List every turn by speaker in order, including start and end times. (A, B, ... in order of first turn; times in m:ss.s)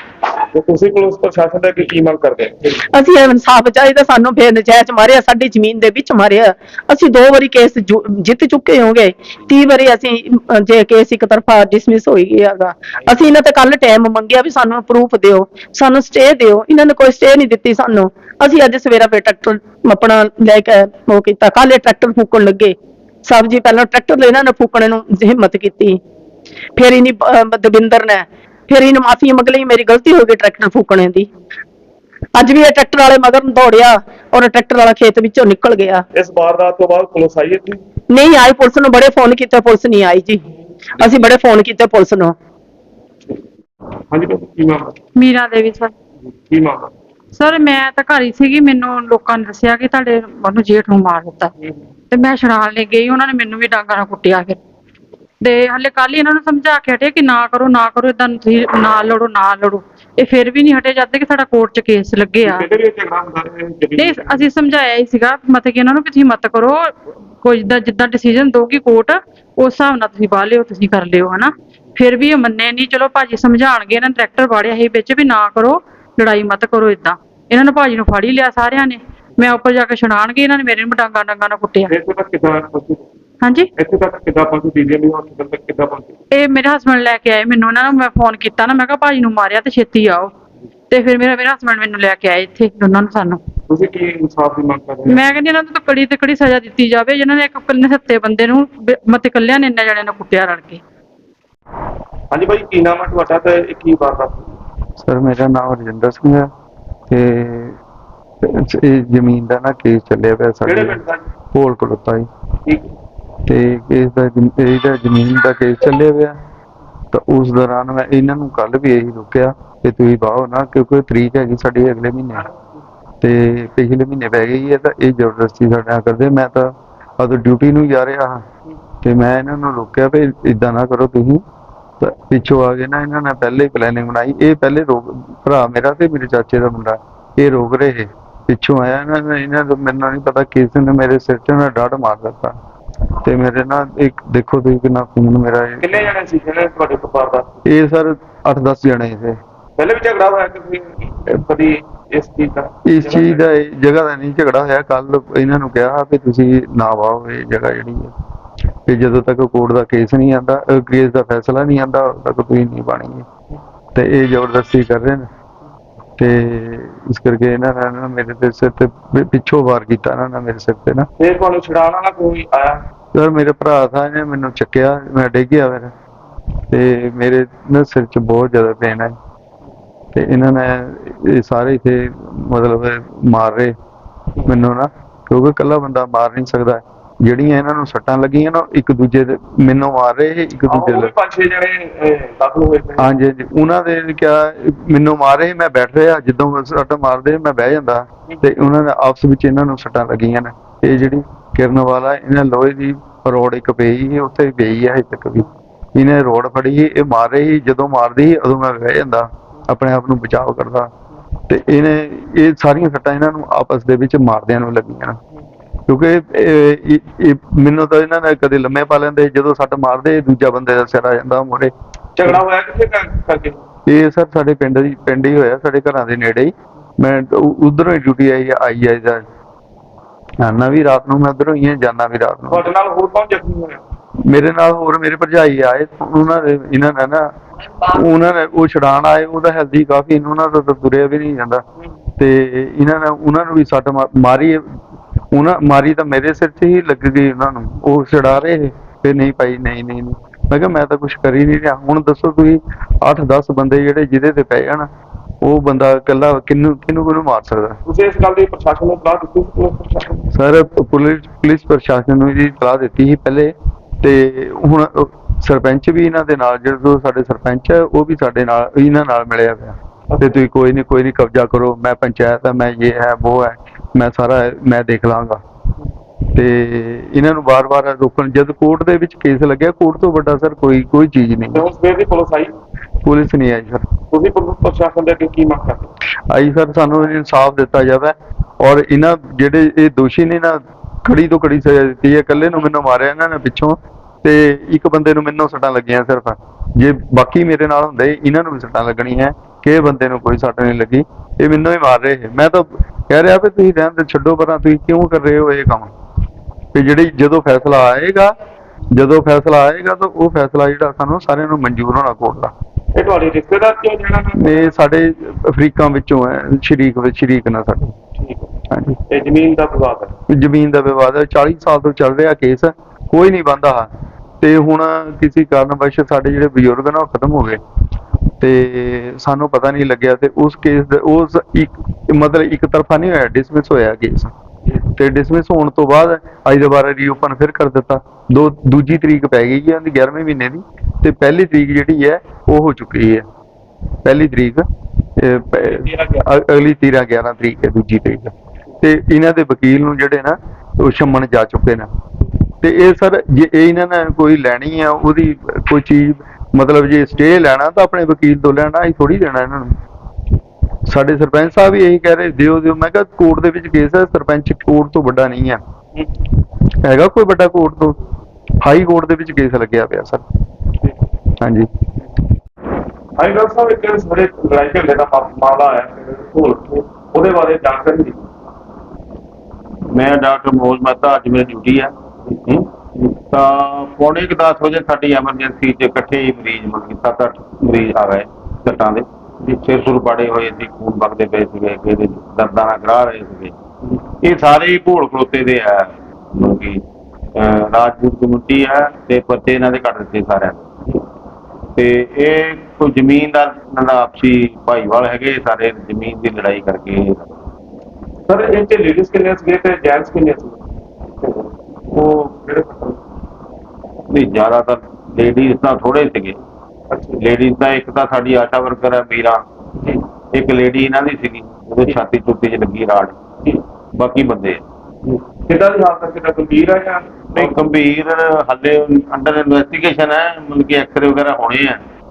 0:00.5-0:02.7 A
0:02.9-0:26.0 B
0:26.8-0:31.3 B
0:32.4-0:36.0 B
0:36.1-0:37.8 A
0:38.1-0:40.4 B
0:41.0-0:42.3 B
0:44.1-0:45.0 A
0:45.2-0:45.9 C
0:46.5-0:46.9 A
0:47.3-0:51.5 C
0:52.1-0:54.6 C
0:55.4-1:02.7 C
1:02.4-1:04.4 A
1:04.0-1:06.9 C
1:07.4-1:21.9 C
1:21.9-1:23.0 A
1:23.4-1:23.7 C
1:23.8-1:26.2 A
1:26.3-1:30.3 C
1:30.9-1:33.4 C
1:33.7-1:35.2 A
1:35.1-1:40.8 C
1:42.3-1:44.5 A
1:45.0-1:46.5 D
1:47.1-1:47.8 D
1:48.4-1:51.0 D
1:50.6-1:51.2 A
1:51.5-1:52.3 D
1:53.5-1:56.3 D
1:57.1-2:02.4 D
2:03.2-2:08.4 D
2:09.0-2:11.4 D
2:12.0-2:22.6 D
2:23.2-2:25.9 D
2:25.8-2:27.5 A
2:27.7-2:29.4 D
2:29.8-2:33.4 A
2:32.9-2:38.1 D
2:38.9-2:43.2 D
2:43.9-2:45.2 D
2:46.2-2:51.1 D
2:51.2-2:52.8 A
2:53.1-2:55.9 D
2:56.7-2:59.2 D
3:00.1-3:03.7 D
3:04.4-3:11.1 D
3:10.7-3:13.0 A
3:13.0-3:30.9 D
3:31.5-3:35.2 D
3:35.9-3:41.7 D
3:42.2-3:43.6 A
3:43.9-3:49.2 D
3:50.4-3:52.7 D
3:52.5-3:53.8 A
3:54.3-3:57.3 D
3:57.9-4:01.6 D
4:02.2-4:04.7 D
4:05.3-4:14.9 D
4:15.4-4:17.8 D
4:17.8-4:20.2 A
4:20.3-4:35.4 D
4:36.3-4:41.6 D
4:41.5-4:42.5 A
4:43.0-4:43.8 D
4:44.1-4:45.9 A
4:46.3-5:05.9 D
5:06.7-5:08.3 D
5:08.9-5:12.5 D
5:13.0-5:14.7 A
5:14.4-5:17.9 D
5:18.2-5:18.5 A
5:18.7-5:19.0 D
5:19.1-5:20.1 A
5:20.3-5:23.9 D
5:24.4-5:27.6 D
5:28.4-5:34.3 D
5:34.9-5:43.2 D
5:44.0-5:44.6 D
5:45.2-5:51.9 D
5:45.5-5:46.2 A
5:52.6-5:59.7 D
6:00.9-6:05.6 D
6:06.8-6:08.0 D
6:08.6-6:10.2 D
6:11.4-6:11.7 D
6:13.2-6:18.2 A
6:19.9-6:21.9 E
6:23.3-6:33.5 E
6:34.2-6:36.8 E
6:37.4-6:40.6 E
6:41.8-6:47.2 E
6:48.3-6:50.6 A
6:51.2-6:53.0 A
6:54.1-6:56.4 E
6:56.9-6:57.2 A
6:57.2-6:59.4 E
7:00.3-7:03.1 E
7:04.0-7:04.6 E
7:05.1-7:07.6 A
7:07.3-7:11.8 E